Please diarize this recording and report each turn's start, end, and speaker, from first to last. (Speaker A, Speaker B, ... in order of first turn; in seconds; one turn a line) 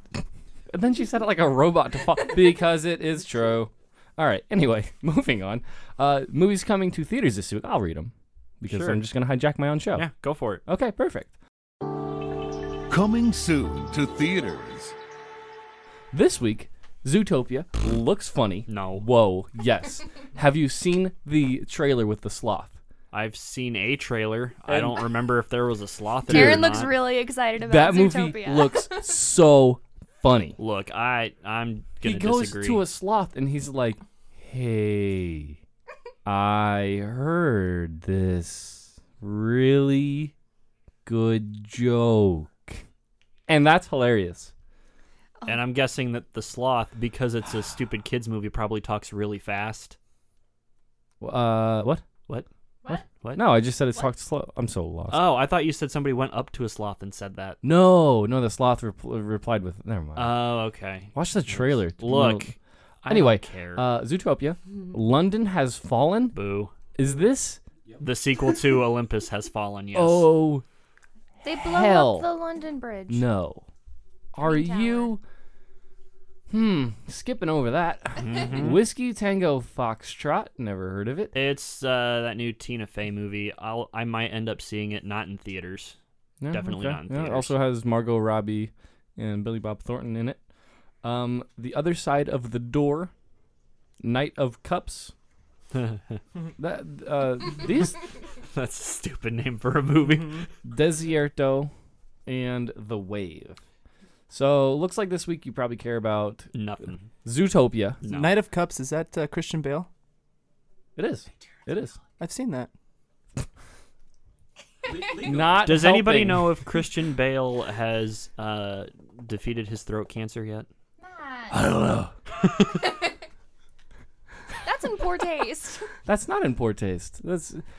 Speaker A: 0.7-10.1
Speaker B: 8.7-9.0
Speaker B: 9.9-10.6
Speaker A: 10.7-11.3
Speaker C: 12.9-14.9
Speaker A: 16.1-22.8
Speaker B: 18.7-19.1
Speaker B: 23.1-26.9
Speaker A: 24.7-25.0
Speaker A: 26.3-26.7
Speaker D: 26.3-29.1
Speaker A: 27.6-30.6
Speaker B: 30.6-32.8
Speaker A: 32.0-35.6
Speaker A: 36.2-40.3
Speaker A: 41.0-42.8
Speaker A: 43.5-44.5
Speaker B: 45.5-50.0
Speaker A: 51.2-52.0
Speaker B: 52.3-53.4
Speaker A: 52.9-55.2
Speaker B: 55.1-57.6
Speaker A: 57.6-60.4
Speaker B: 60.1-63.9
Speaker A: 61.1-62.5
Speaker A: 63.1-66.3
Speaker B: 66.3-66.7
Speaker A: 66.9-67.6
Speaker B: 68.0-70.3
Speaker A: 69.9-70.6
Speaker D: 71.4-73.2
Speaker A: 71.5-72.3
Speaker A: 73.1-73.7
Speaker A: 74.3-75.2
Speaker D: 74.4-75.2
Speaker A: 76.5-81.3
Speaker B: 78.2-78.8
Speaker B: 81.3-86.0
Speaker A: 86.4-90.4
Speaker B: 86.5-87.5
Speaker A: 91.0-93.1
Speaker A: 94.0-95.1
Speaker B: 95.7-96.2
Speaker A: 96.6-98.0
Speaker B: 98.5-100.5
Speaker A: 100.6-101.7
Speaker A: 102.2-103.6
Speaker A: 104.3-106.5
Speaker B: 106.5-107.1
Speaker A: 107.2-108.0
Speaker B: 108.0-108.3
Speaker E: 108.1-109.9
Speaker A: 111.0-112.0
Speaker E: 112.2-112.7
Speaker B: 115.0-120.7
Speaker A: 115.1-116.7
Speaker D: 121.0-121.6
Speaker A: 121.5-122.1
Speaker D: 124.6-125.8
Speaker A: 126.0-127.6